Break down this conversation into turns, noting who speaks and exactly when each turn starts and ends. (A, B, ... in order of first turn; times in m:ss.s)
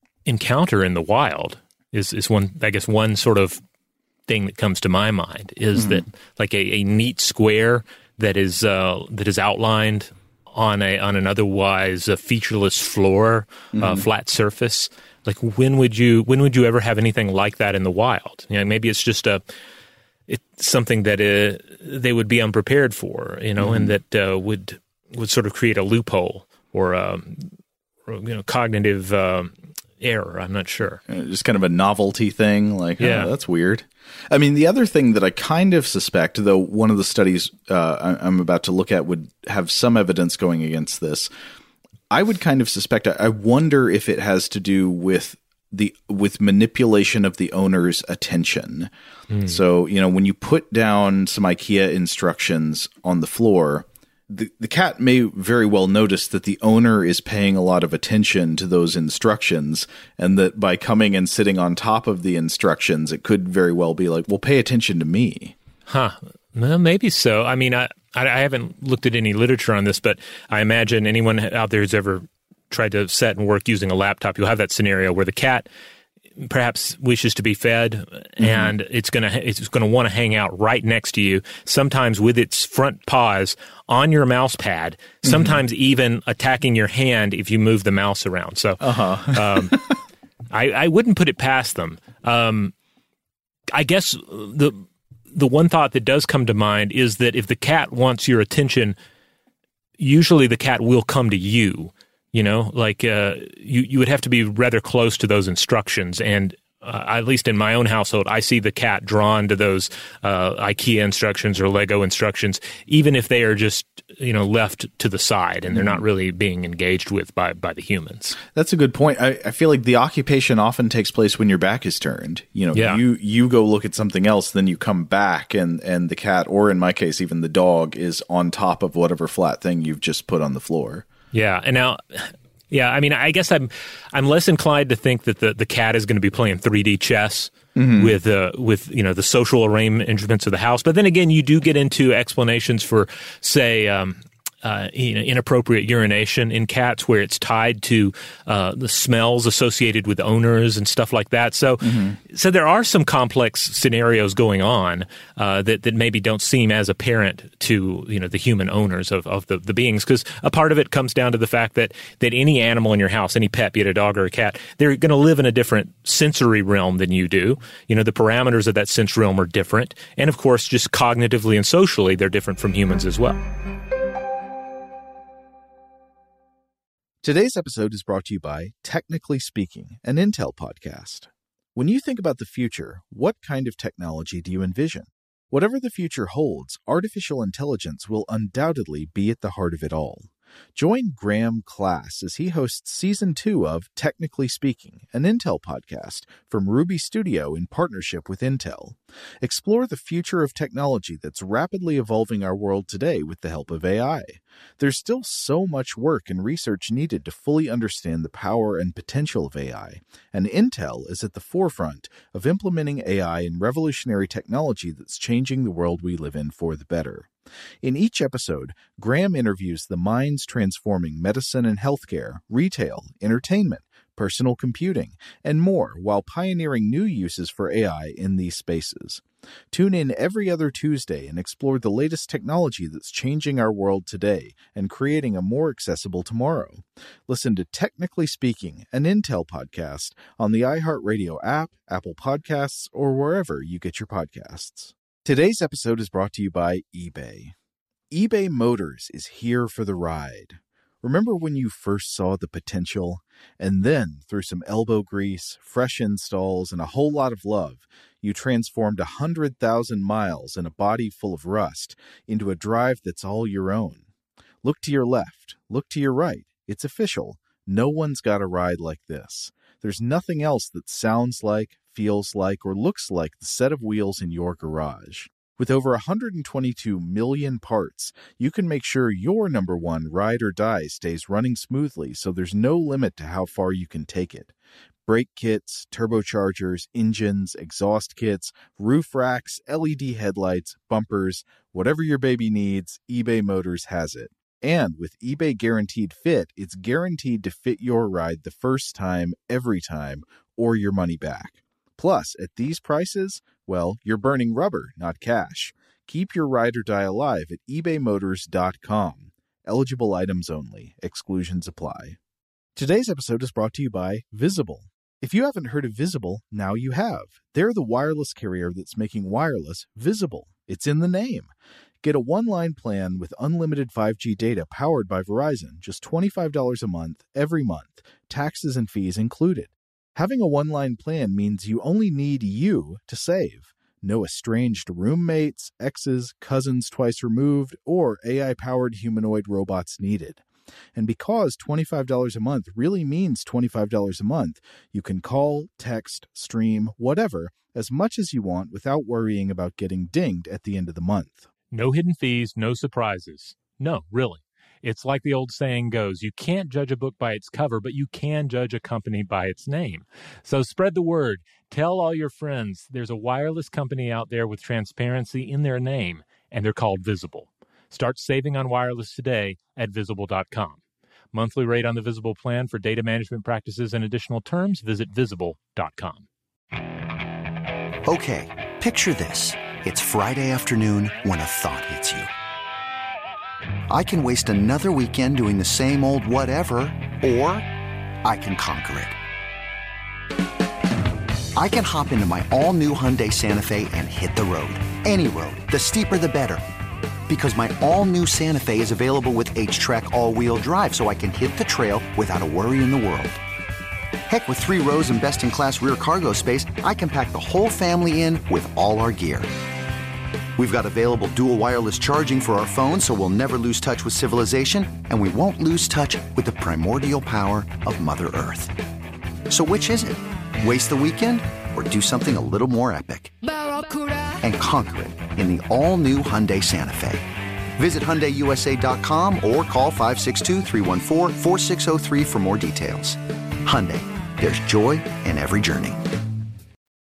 0:00.2-0:03.6 A
0:04.3-0:19.4 A
0:05.7-0:06.0 B
0:13.7-0:14.0 B
0:20.3-0:27.5 A
0:23.6-0:23.9 B
0:28.1-0:31.0 A
0:31.1-0:41.3 B
0:33.0-0:33.3 A
0:42.1-0:48.9 B
0:49.3-0:49.6 A
0:49.4-1:05.5 B
1:05.9-1:15.7 A
1:16.4-1:29.8 A
1:18.4-1:18.7 B
1:25.2-1:25.6 B
1:28.8-1:29.9 B
1:30.5-1:32.7 A
1:33.7-1:34.8 A
1:35.3-1:38.9 A
1:40.0-1:58.4 A
1:55.7-1:56.0 B
1:58.5-2:11.0 B
2:02.7-2:03.0 A
2:11.3-2:53.4 A
2:17.8-2:18.1 B
2:31.8-2:32.2 B
2:57.2-3:37.3 B
3:37.8-4:07.5 B
4:08.1-4:24.0 B
4:24.6-4:44.5 B
4:45.1-5:12.2 B
5:12.8-5:21.5 B
5:22.0-5:40.4 B
5:41.0-5:51.5 B
5:51.7-6:10.8 A
6:11.3-6:16.2 A
6:18.0-6:22.3 C
6:23.9-6:27.7 C
6:28.2-6:29.2 C
6:31.6-6:36.6 C
6:37.3-6:43.4 C
6:44.3-6:49.5 C
6:50.6-6:58.7 C
6:59.5-7:07.2 C
7:07.8-7:16.1 C